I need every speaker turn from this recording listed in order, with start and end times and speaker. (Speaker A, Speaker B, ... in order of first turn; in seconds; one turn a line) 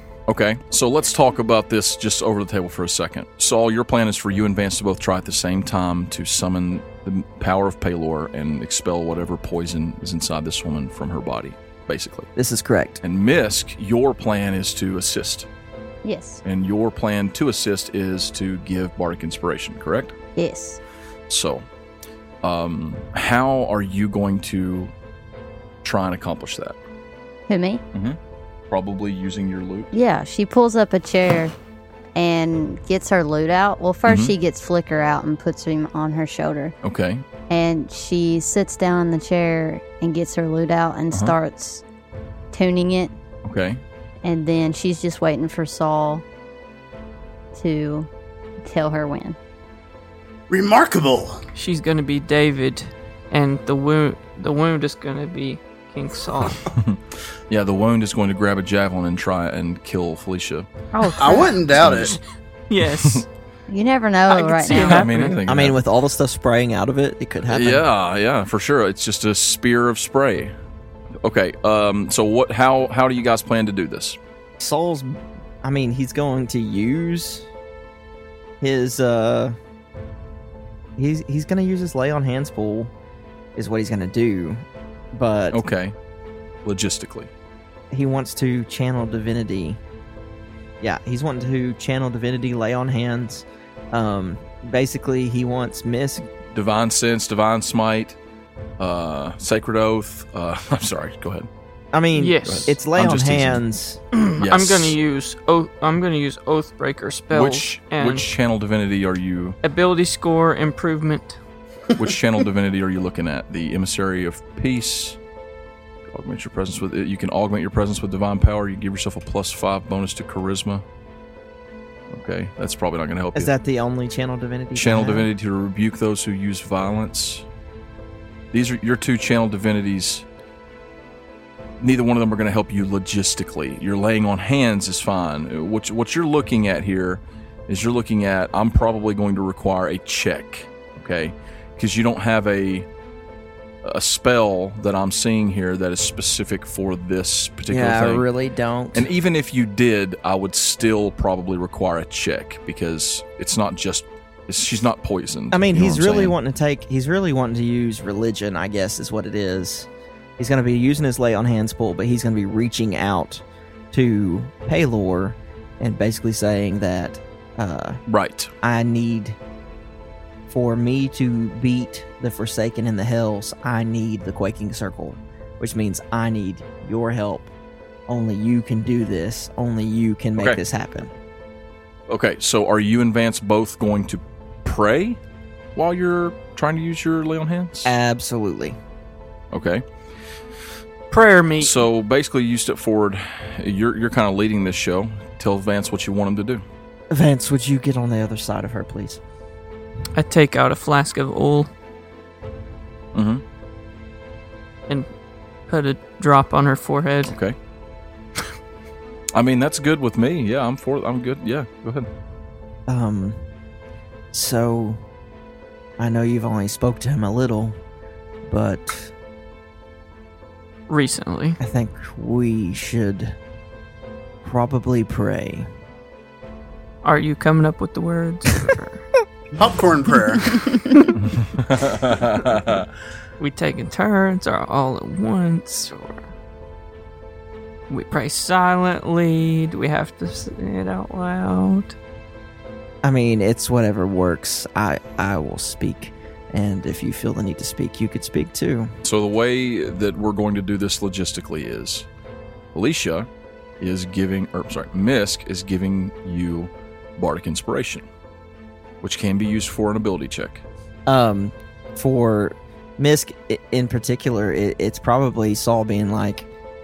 Speaker A: 0.3-12.3
Speaker B: 12.3-13.0
Speaker A: 13.0-15.5
Speaker C: 16.0-16.4
Speaker A: 16.4-20.1
Speaker C: 20.4-20.8
Speaker A: 21.3-21.6
Speaker A: 22.4-24.9
Speaker A: 25.8-26.8
Speaker C: 27.5-27.8
Speaker A: 27.9-28.2
Speaker A: 28.7-29.9
Speaker C: 29.9-31.5
Speaker C: 32.1-36.7
Speaker A: 34.0-34.3
Speaker A: 36.8-37.2
Speaker C: 37.5-41.8
Speaker C: 42.5-43.1
Speaker A: 43.4-43.8
Speaker C: 44.2-46.2
Speaker C: 47.5-48.1
Speaker C: 48.6-49.4
Speaker D: 50.5-51.4
Speaker E: 51.5-56.6
Speaker A: 56.7-60.7
Speaker C: 60.9-61.5
Speaker E: 61.0-61.4
Speaker D: 61.2-62.2
Speaker A: 61.8-62.2
Speaker E: 62.7-63.2
Speaker C: 63.7-65.0
Speaker E: 64.3-65.4
Speaker A: 64.7-65.8
Speaker B: 65.5-67.8
Speaker A: 67.5-70.5
Speaker A: 71.2-74.2
Speaker B: 74.6-77.5
Speaker B: 78.6-79.5
Speaker B: 81.0-82.9
Speaker B: 83.5-85.6
Speaker A: 85.5-86.0
Speaker A: 86.6-87.3
Speaker B: 87.9-89.8
Speaker B: 90.8-96.3
Speaker A: 96.5-98.2
Speaker A: 98.8-101.5
Speaker B: 101.9-104.0
Speaker E: 102.1-102.7
Speaker A: 102.4-103.6
Speaker E: 104.1-108.2
Speaker A: 104.4-105.0
Speaker A: 107.3-109.6
Speaker E: 109.6-111.4
Speaker A: 112.0-115.2
Speaker A: 116.1-120.8
Speaker A: 122.1-123.5
Speaker B: 123.3-125.3
Speaker A: 124.7-127.5
Speaker A: 128.5-130.2
Speaker A: 131.8-142.9
Speaker A: 143.8-148.2
Speaker B: 147.7-149.1
Speaker A: 148.9-156.3
Speaker B: 155.5-168.0
Speaker A: 168.1-168.5
Speaker B: 168.6-169.4
Speaker B: 170.5-177.5
Speaker B: 178.1-181.1
Speaker A: 182.1-185.2
Speaker A: 185.7-187.9
Speaker B: 187.8-188.8
Speaker A: 189.5-189.8
Speaker E: 191.1-191.8
Speaker A: 191.6-196.6
Speaker B: 197.1-199.2
Speaker E: 200.1-201.7
Speaker A: 203.1-203.4
Speaker E: 205.7-207.3
Speaker A: 207.2-207.6
Speaker A: 209.3-212.1
Speaker B: 212.9-213.5
Speaker B: 214.3-215.0
Speaker B: 216.0-217.8
Speaker B: 218.4-219.1
Speaker E: 220.9-221.6
Speaker B: 221.6-223.4
Speaker B: 224.4-225.7
Speaker E: 227.0-229.0
Speaker D: 229.6-230.5
Speaker A: 231.2-232.9
Speaker E: 233.4-236.3
Speaker E: 237.9-241.9
Speaker B: 243.0-248.9
Speaker A: 249.0-252.1
Speaker A: 252.7-253.3
Speaker A: 253.8-258.1
Speaker A: 259.0-260.6
Speaker B: 261.1-266.5